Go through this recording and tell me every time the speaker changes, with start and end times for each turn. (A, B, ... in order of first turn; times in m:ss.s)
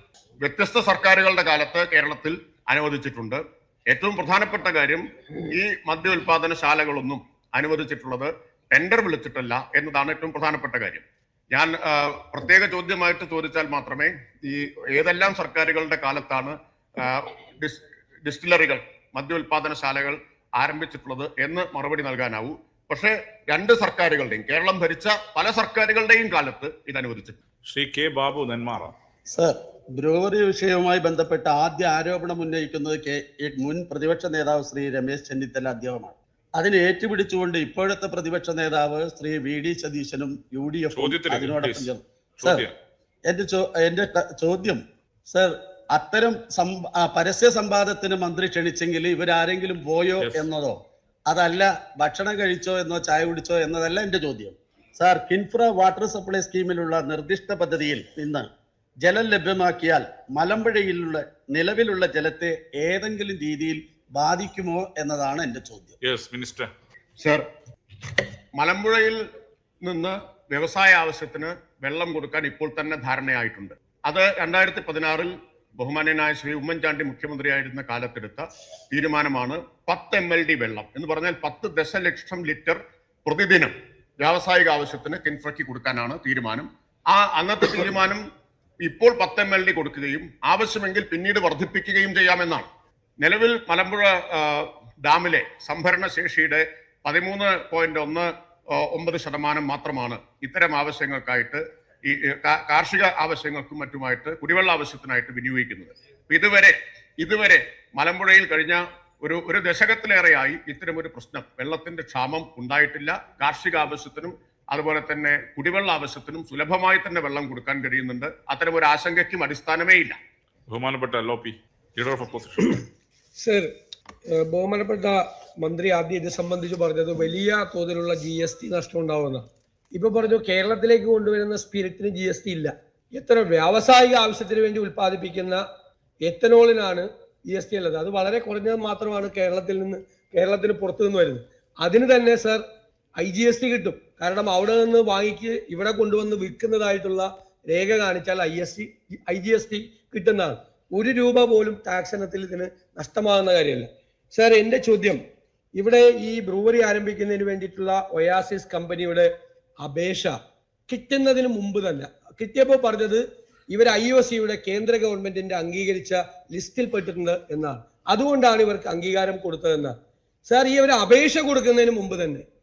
0:00.4-0:27.4 A
0:27.6-0:28.9 B
0:29.3-0:42.6 C
0:40.9-0:41.9 B
0:42.4-0:42.7 B
0:43.3-0:58.5 C
0:50.2-0:50.4 B
0:59.0-1:06.0 C
1:06.0-1:06.7 B
1:08.6-1:09.2 A
1:09.8-1:28.2 A
1:28.8-1:32.7 A
1:33.2-2:00.2 A
2:00.7-2:02.8 B
2:03.4-2:03.7 D
2:04.3-2:15.6 D
2:16.2-2:22.6 D
2:23.2-2:35.2 D
2:35.8-2:39.3 D
2:39.8-2:40.4 D
2:40.9-2:50.0 D
2:50.5-2:52.4 D